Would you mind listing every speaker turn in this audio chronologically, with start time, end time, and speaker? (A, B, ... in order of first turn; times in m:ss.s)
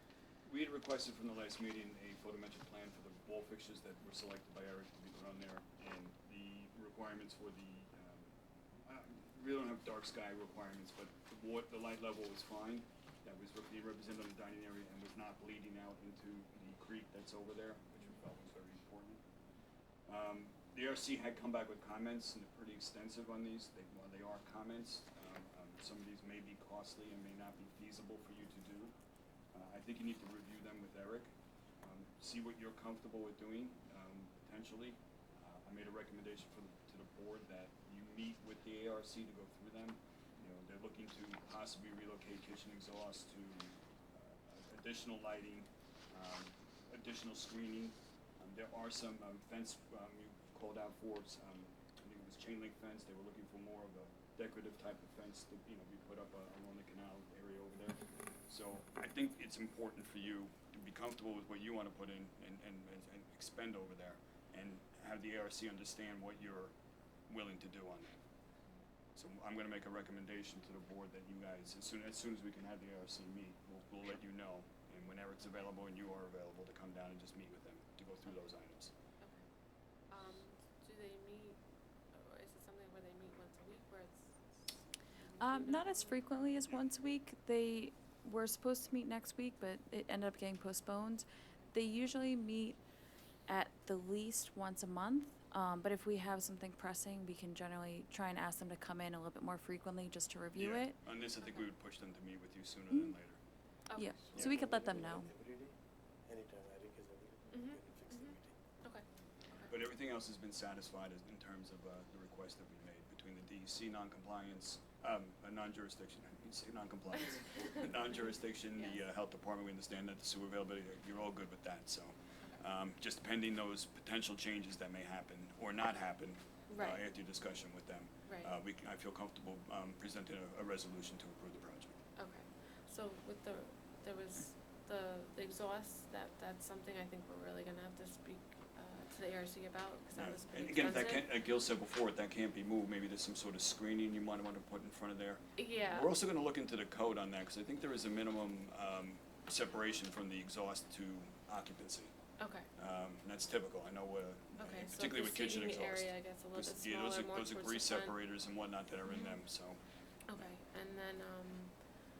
0:00.5-0:08.3 A
0:08.9-0:19.2 A
0:20.0-0:28.9 A
0:29.5-0:31.3 A
0:31.8-1:06.7 A
1:07.3-1:08.1 A
1:09.2-1:18.9 A
1:20.1-1:21.6 B
1:22.1-1:24.5 B
1:25.1-1:26.2 B
1:25.4-1:32.8 C
1:33.5-1:41.0 C
1:40.6-1:43.4 A
1:41.4-1:41.7 B
1:44.0-1:45.3 C
1:44.3-1:45.7 D
1:44.3-1:44.6 A
1:46.2-1:48.5 D
1:47.5-1:49.7 B
1:49.7-2:11.9 A
2:06.7-2:07.0 B
2:08.3-2:08.5 B
2:12.2-2:21.3 B
2:20.2-2:32.1 A
2:25.6-2:26.1 B
2:32.4-2:32.7 B
2:32.8-2:39.8 A
2:34.6-2:38.2 B
2:39.0-2:39.4 B
2:40.3-2:41.8 B